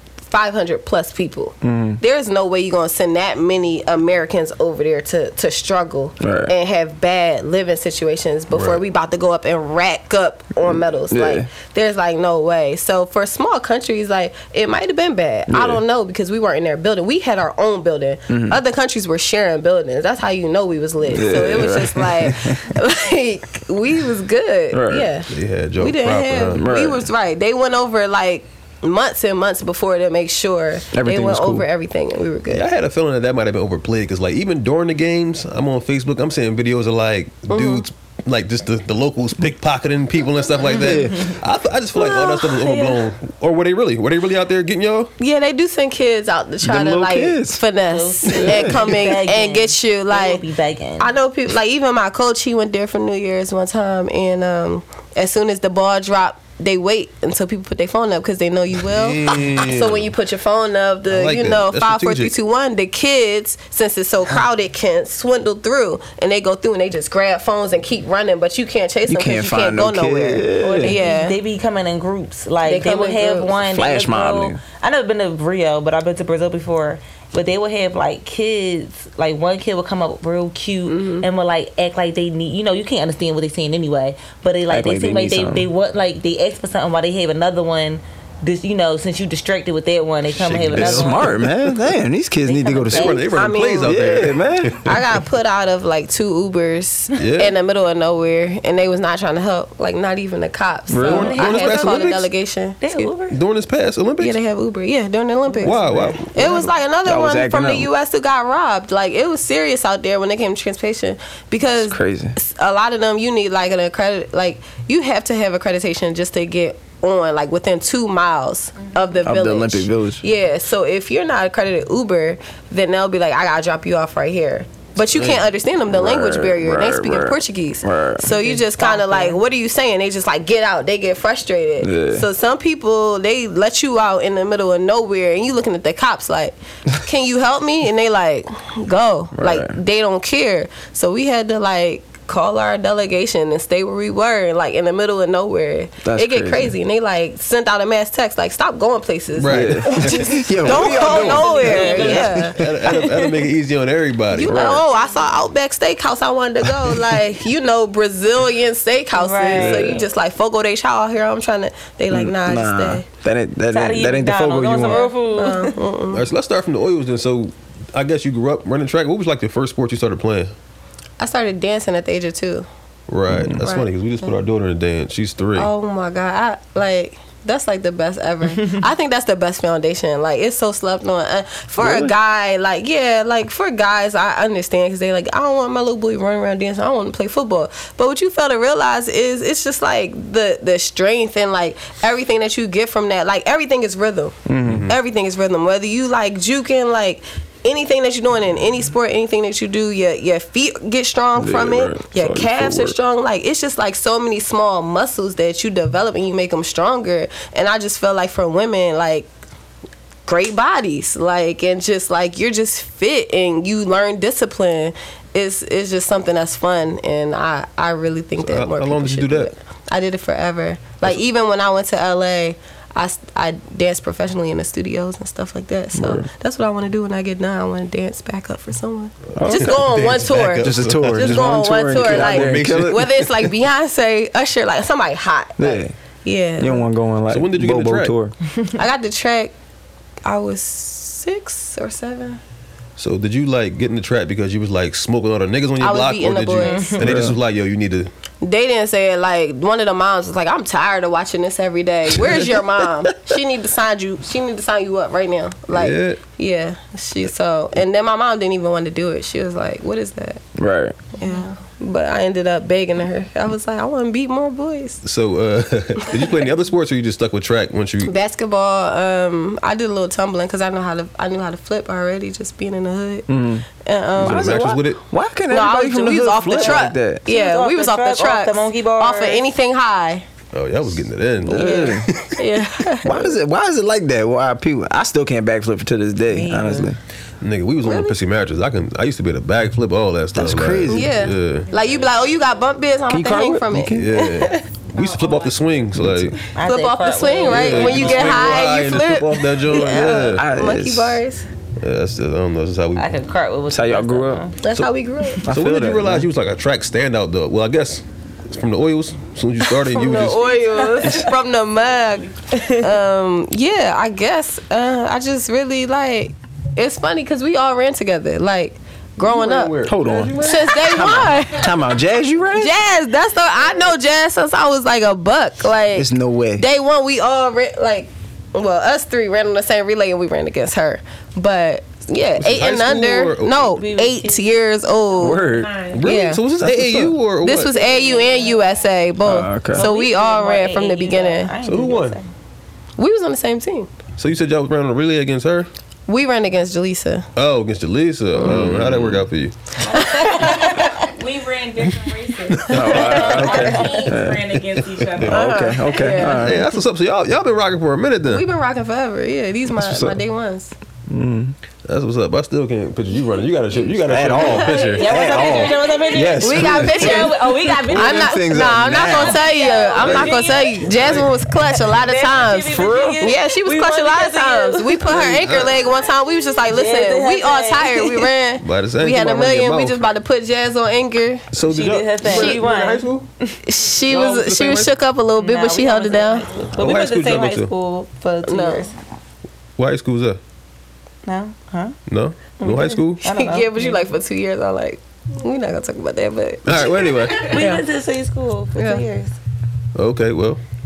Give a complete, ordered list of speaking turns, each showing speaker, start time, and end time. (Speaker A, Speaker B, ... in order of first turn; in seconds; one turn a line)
Speaker A: 0.3-32.6
Speaker B: 1.6-2.0
Speaker B: 6.2-6.5
Speaker C: 8.5-8.8
Speaker B: 11.1-11.5
Speaker B: 15.5-15.8
Speaker B: 18.3-18.6
Speaker B: 21.1-22.6
Speaker B: 24.7-25.1
Speaker C: 25.3-26.6
Speaker B: 26.5-27.1
Speaker B: 30.9-31.7
Speaker C: 32.5-45.1
Speaker A: 37.5-37.8
Speaker B: 40.8-41.4
Speaker A: 42.0-43.0
Speaker A: 45.2-50.4
Speaker B: 46.6-47.6
Speaker D: 47.9-51.1
Speaker B: 48.3-48.9
Speaker A: 51.0-71.4
Speaker C: 58.8-60.1
Speaker C: 61.1-62.3
Speaker B: 69.1-71.0
Speaker D: 70.6-91.4
Speaker A: 72.6-73.5
Speaker B: 73.6-74.6
Speaker A: 80.9-81.3
Speaker B: 84.7-85.7
Speaker C: 90.3-91.5
Speaker B: 90.7-93.2
Speaker D: 92.4-93.3
Speaker C: 92.9-94.9
Speaker A: 93.3-94.0
Speaker B: 93.8-94.8
Speaker A: 94.8-103.1
Speaker C: 97.2-97.5
Speaker B: 100.9-101.4
Speaker D: 101.0-102.0
Speaker C: 101.0-102.3
Speaker D: 102.8-103.3
Speaker C: 103.3-104.4
Speaker A: 104.2-152.6
Speaker D: 105.5-106.2
Speaker C: 105.6-106.6
Speaker B: 107.0-107.9
Speaker B: 111.8-112.3
Speaker B: 119.2-120.2
Speaker C: 125.1-125.4
Speaker B: 125.9-128.3
Speaker D: 128.2-129.4
Speaker B: 131.8-132.2
Speaker B: 139.3-139.8
Speaker B: 146.0-146.7
Speaker C: 149.4-154.8
Speaker B: 149.5-152.8
Speaker D: 151.0-153.3
Speaker A: 154.3-163.0
Speaker B: 154.4-154.8
Speaker D: 159.2-160.0
Speaker B: 159.5-160.0
Speaker B: 162.1-165.1
Speaker D: 163.7-165.7
Speaker A: 164.9-166.2
Speaker C: 166.1-170.5
Speaker A: 171.2-172.7
Speaker C: 173.1-175.7
Speaker B: 173.3-173.6
Speaker A: 173.6-174.3
Speaker A: 175.6-194.4
Speaker B: 181.8-182.1
Speaker B: 194.5-194.9
Speaker C: 194.7-195.0
Speaker A: 194.9-209.3
Speaker B: 201.3-203.0
Speaker A: 210.2-236.8
Speaker C: 218.4-219.5
Speaker B: 225.9-226.3
Speaker B: 229.3-229.9
Speaker C: 229.4-233.5
Speaker B: 230.6-233.1
Speaker B: 235.6-235.9
Speaker B: 236.6-238.3
Speaker C: 237.3-238.1
Speaker A: 238.7-239.5
Speaker A: 240.2-242.4
Speaker C: 243.0-248.1
Speaker A: 245.8-247.0
Speaker D: 246.6-247.0
Speaker B: 247.0-247.3
Speaker A: 248.4-260.4
Speaker C: 255.7-256.2
Speaker B: 260.6-261.0
Speaker A: 261.2-265.0
Speaker C: 265.0-268.1
Speaker A: 266.1-266.4
Speaker A: 268.0-273.3
Speaker B: 273.3-273.6
Speaker A: 273.8-274.7
Speaker C: 274.2-275.0
Speaker B: 274.2-277.2
Speaker A: 275.5-280.2
Speaker D: 277.3-279.4
Speaker C: 280.5-282.4
Speaker B: 281.4-282.1
Speaker A: 282.4-283.3
Speaker B: 283.0-287.0
Speaker D: 286.3-286.9
Speaker C: 287.4-291.7
Speaker A: 287.8-288.1
Speaker B: 290.3-291.1
Speaker A: 290.9-294.6
Speaker B: 293.1-294.1
Speaker C: 293.9-296.4
Speaker E: 295.0-295.5
Speaker B: 295.9-296.3
Speaker D: 296.5-298.6
Speaker A: 296.6-301.4
Speaker C: 297.4-300.4
Speaker B: 300.1-301.2
Speaker C: 301.8-303.1
Speaker D: 302.9-304.6
Speaker B: 303.7-304.4
Speaker A: 304.6-305.4
Speaker B: 305.4-306.3
Speaker C: 305.5-311.1
Speaker A: 309.8-319.7
Speaker C: 319.2-321.3
Speaker B: 319.9-322.7
Speaker A: 320.4-321.7
Speaker A: 322.6-336.4
Speaker B: 325.9-326.6
Speaker C: 332.4-333.8
Speaker D: 333.7-334.5
Speaker B: 335.2-335.7
Speaker E: 335.5-336.0
Speaker C: 335.9-337.8
Speaker B: 336.7-337.1
Speaker A: 337.4-341.5
Speaker D: 337.7-338.6
Speaker B: 339.2-339.8
Speaker D: 339.7-342.3
Speaker C: 341.6-342.2
Speaker A: 343.0-343.9
Speaker C: 344.2-345.7
Speaker A: 346.1-347.3
Speaker C: 347.4-349.6
Speaker A: 348.4-348.7
Speaker B: 348.4-349.2
Speaker E: 349.9-355.6
Speaker A: 349.9-350.9
Speaker C: 352.5-353.4
Speaker B: 352.7-354.4
Speaker C: 355.0-355.3
Speaker B: 355.2-356.6
Speaker A: 355.3-356.7
Speaker C: 356.2-358.4
Speaker A: 358.3-360.7
Speaker B: 359.7-360.2
Speaker B: 361.1-361.5
Speaker C: 361.9-365.1
Speaker B: 364.1-369.5
Speaker D: 364.9-375.2
Speaker A: 366.3-381.4
Speaker C: 370.0-371.3
Speaker B: 372.7-373.3
Speaker C: 375.1-375.8
Speaker D: 376.7-378.3
Speaker C: 378.6-380.1
Speaker C: 381.5-383.3
Speaker D: 381.7-383.6
Speaker A: 382.2-382.6
Speaker A: 383.6-386.5
Speaker C: 384.1-384.9
Speaker D: 385.4-388.9
Speaker C: 386.8-387.7
Speaker A: 388.4-388.9
Speaker C: 389.8-390.4
Speaker D: 391.2-392.0
Speaker C: 392.1-393.2
Speaker D: 392.6-394.1
Speaker A: 393.2-397.9
Speaker C: 396.6-397.5
Speaker D: 397.3-399.4
Speaker A: 398.8-399.0
Speaker C: 399.9-400.6